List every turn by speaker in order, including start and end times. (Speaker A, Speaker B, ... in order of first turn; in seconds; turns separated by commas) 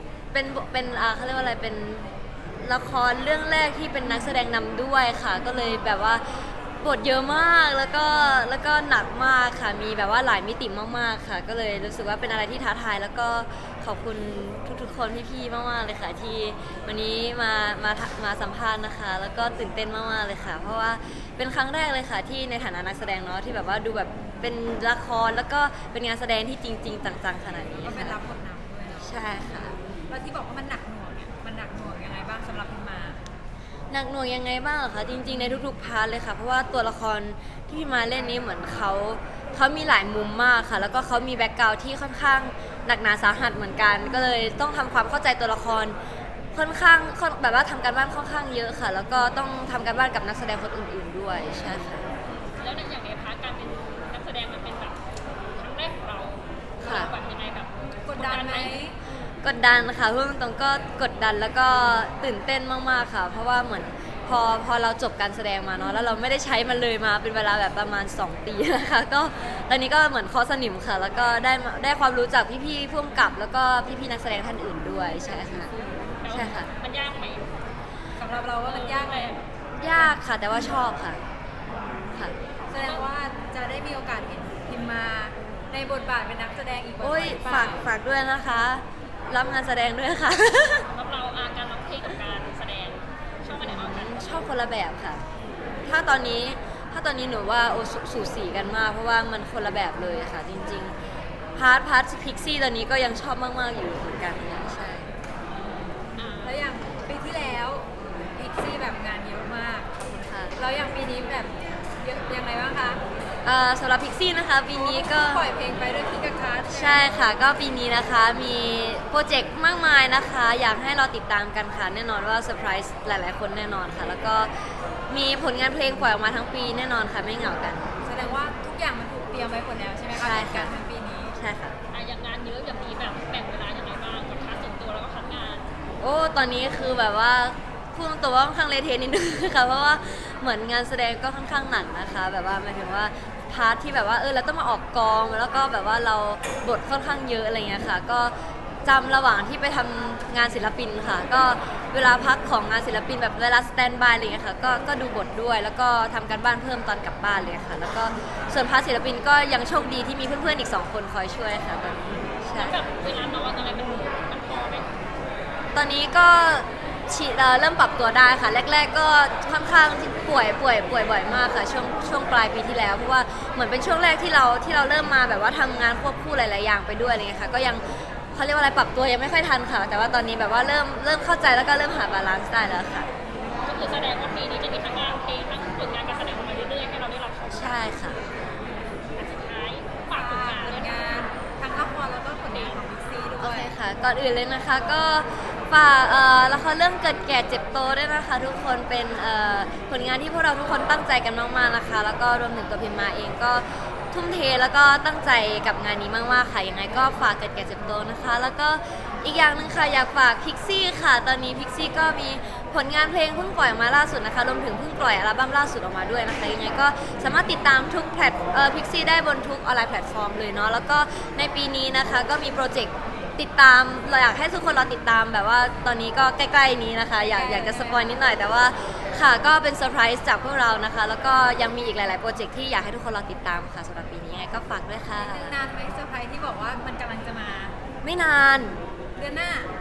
Speaker A: 0.3-2.1, Speaker A: 2.6-28.2, Speaker B: 27.8-29.3, Speaker A: 29.0-29.8, Speaker B: 30.1-33.2, Speaker A: 33.9-46.0, Speaker A: 46.5-52.0, Speaker C: 52.3-55.0, Speaker C: 55.5-58.8, Speaker A: 56.8-57.1, Speaker B: 58.1-58.9, Speaker A: 59.4-75.7, Speaker C: 76.2-77.5, Speaker A: 76.3-76.7, Speaker B: 78.2-79.4, Speaker C: 78.6-79.4, Speaker A: 79.8-81.2, Speaker B: 82.7-87.8, Speaker C: 82.8-83.1, Speaker A: 87.0-90.9, Speaker C: 90.9-94.5, Speaker A: 93.6-95.2, Speaker A: 95.8-100.9, Speaker A: 101.5-105.1, Speaker C: 106.2-106.7, Speaker B: 106.4-109.9, Speaker A: 110.2-110.5, Speaker B: 110.6-113.0, Speaker A: 113.4-115.4, Speaker B: 114.7-117.1, Speaker A: 116.7-127.9, Speaker B: 128.0-131.4, Speaker A: 130.1-130.7, Speaker A: 131.4-131.8, Speaker C: 131.9-135.7, Speaker A: 136.0-148.3, Speaker A: 148.8-162.8, Speaker C: 162.5-164.9, Speaker A: 165.7-183.1, Speaker C: 183.6-187.9, Speaker A: 187.5-188.2, Speaker C: 189.2-191.1, Speaker B: 190.1-193.7, Speaker C: 192.5-192.8, Speaker A: 193.4-235.5, Speaker B: 227.3-228.2, Speaker B: 235.1-237.7, Speaker A: 238.0-238.8, Speaker B: 239.2-239.7